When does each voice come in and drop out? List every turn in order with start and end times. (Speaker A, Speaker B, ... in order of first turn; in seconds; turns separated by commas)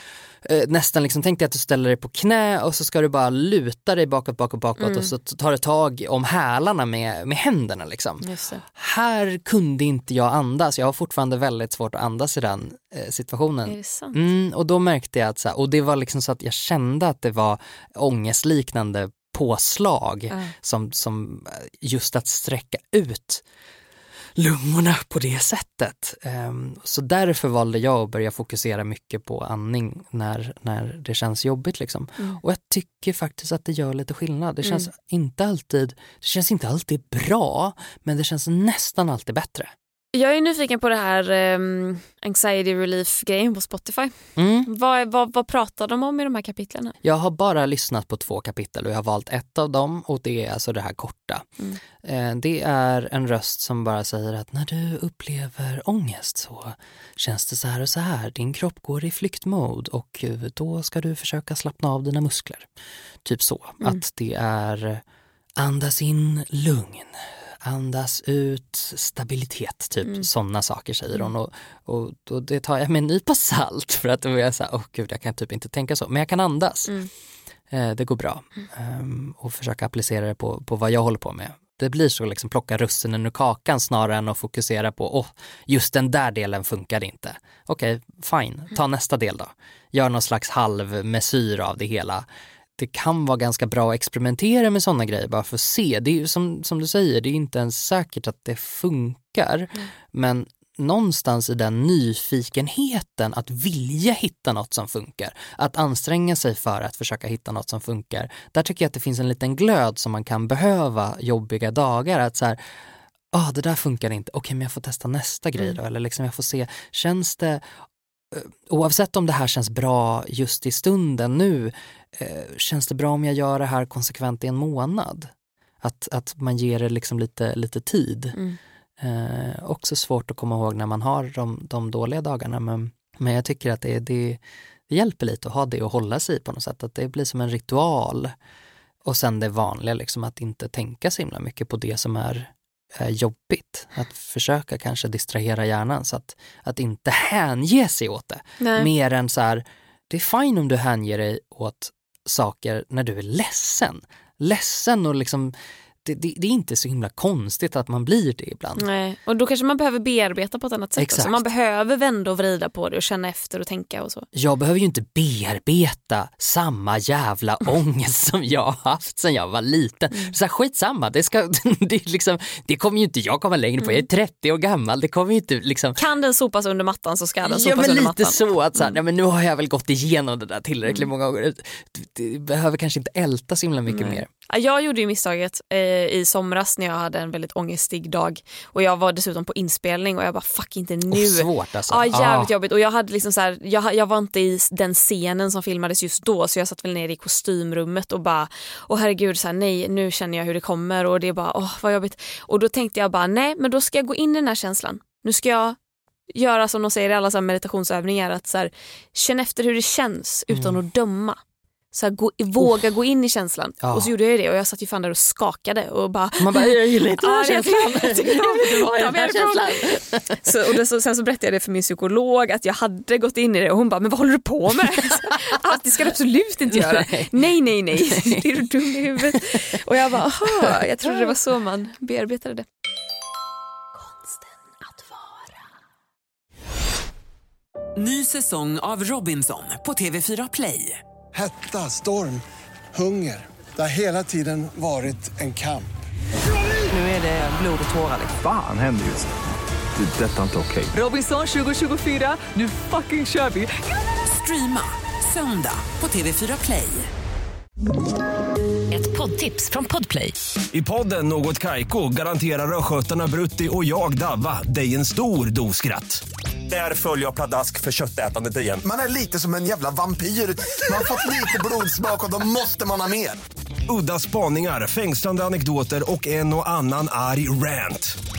Speaker A: 0.4-23.4, Speaker B: 4.8-5.1, Speaker B: 8.2-8.6, Speaker B: 13.7-14.2, Speaker A: 24.4-39.7, Speaker B: 34.6-34.9, Speaker B: 40.1-44.1, Speaker A: 44.4-44.7, Speaker B: 44.7-47.0, Speaker A: 47.0-51.5, Speaker A: 52.0-62.7, Speaker A: 63.2-65.0, Speaker A: 65.6-76.9, Speaker A: 77.7-92.3, Speaker A: 92.8-112.6, Speaker A: 113.3-117.7, Speaker A: 118.3-128.4, Speaker A: 129.0-138.3, Speaker A: 139.1-158.8, Speaker B: 148.6-148.9, Speaker B: 158.8-164.3, Speaker A: 161.0-161.4, Speaker A: 164.3-176.0, Speaker B: 176.0-178.9, Speaker A: 177.4-184.3, Speaker B: 183.9-205.8, Speaker A: 191.1-192.5, Speaker B: 206.3-211.4, Speaker A: 210.5-210.8, Speaker B: 211.9-232.7, Speaker A: 213.8-214.1, Speaker A: 216.4-220.5, Speaker A: 225.2-225.5, Speaker A: 226.7-227.3, Speaker A: 228.0-228.6, Speaker A: 229.2-229.6, Speaker A: 230.5-231.3, Speaker C: 234.8-235.4, Speaker D: 238.0-241.0, Speaker E: 241.3-242.4, Speaker E: 242.9-245.9, Speaker D: 246.9-248.4, Speaker F: 248.4-249.3, Speaker F: 249.9-251.0, Speaker D: 250.9-257.1, Speaker C: 258.9-260.4, Speaker G: 260.7-268.8, Speaker H: 268.8-273.4, Speaker G: 273.9-278.1